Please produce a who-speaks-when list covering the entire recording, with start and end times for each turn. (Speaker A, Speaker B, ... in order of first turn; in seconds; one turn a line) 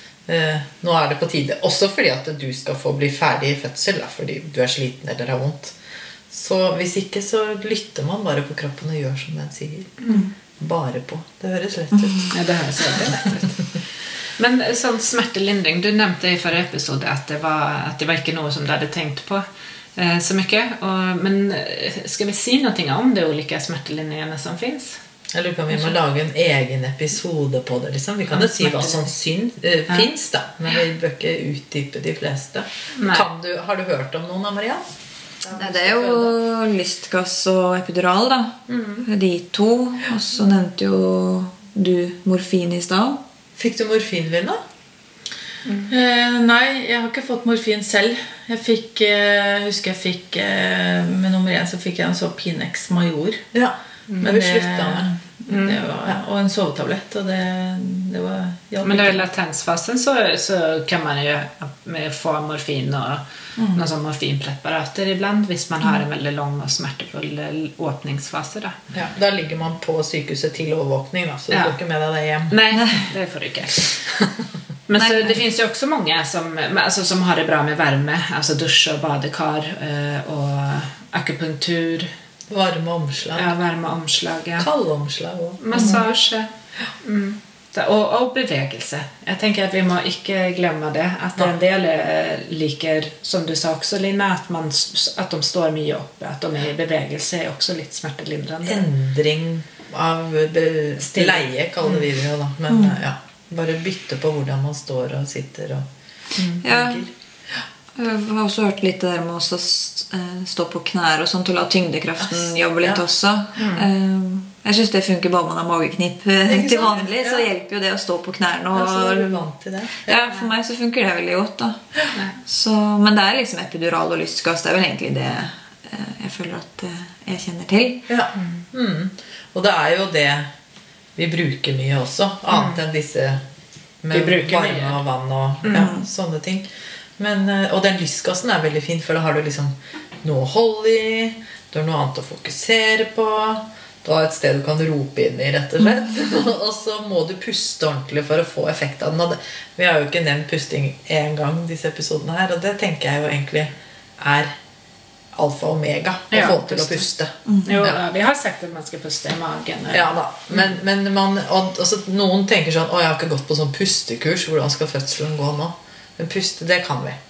Speaker A: 0.3-5.7
Speaker A: 6.3-10.0
Speaker A: 10.6-12.3
Speaker B: 11.9-12.3
Speaker C: 12.3-13.6
Speaker C: 14.3-25.0
Speaker A: 25.3-34.8
Speaker C: 28.3-29.1
Speaker C: 33.0-33.3
Speaker A: 35.4-36.3
Speaker B: 35.5-43.2
Speaker A: 38.7-39.0
Speaker A: 43.6-44.6
Speaker C: 45.6-45.9
Speaker D: 45.9-53.5
Speaker A: 53.5-55.1
Speaker D: 54.2-59.2
Speaker C: 55.5-55.8
Speaker C: 58.8-63.2
Speaker D: 63.5-63.9
Speaker C: 63.7-68.8
Speaker A: 68.9-72.5
Speaker C: 71.5-71.8
Speaker C: 72.5-74.3
Speaker B: 72.7-73.0
Speaker C: 74.9-82.1
Speaker B: 75.0-75.4
Speaker A: 82.5-83.5
Speaker C: 83.3-84.7
Speaker A: 84.6-86.0
Speaker C: 85.6-86.5
Speaker D: 85.7-86.0
Speaker C: 87.0-98.8
Speaker A: 98.7-105.8
Speaker C: 101.0-102.1
Speaker B: 102.7-103.0
Speaker C: 106.4-106.6
Speaker B: 106.6-107.0
Speaker A: 106.6-107.1
Speaker B: 107.9-119.4
Speaker A: 112.2-113.0
Speaker C: 113.6-113.9
Speaker A: 116.5-117.5
Speaker A: 118.7-120.2
Speaker B: 120.0-121.8
Speaker B: 122.4-128.1
Speaker A: 128.1-130.5
Speaker C: 128.4-128.6
Speaker A: 131.2-133.4
Speaker C: 132.5-132.8
Speaker A: 134.0-154.5
Speaker C: 134.1-135.0
Speaker C: 135.6-135.9
Speaker B: 135.7-136.1
Speaker A: 155.3-158.0
Speaker C: 156.3-157.0
Speaker B: 157.4-157.8
Speaker C: 157.6-160.7
Speaker A: 159.9-167.2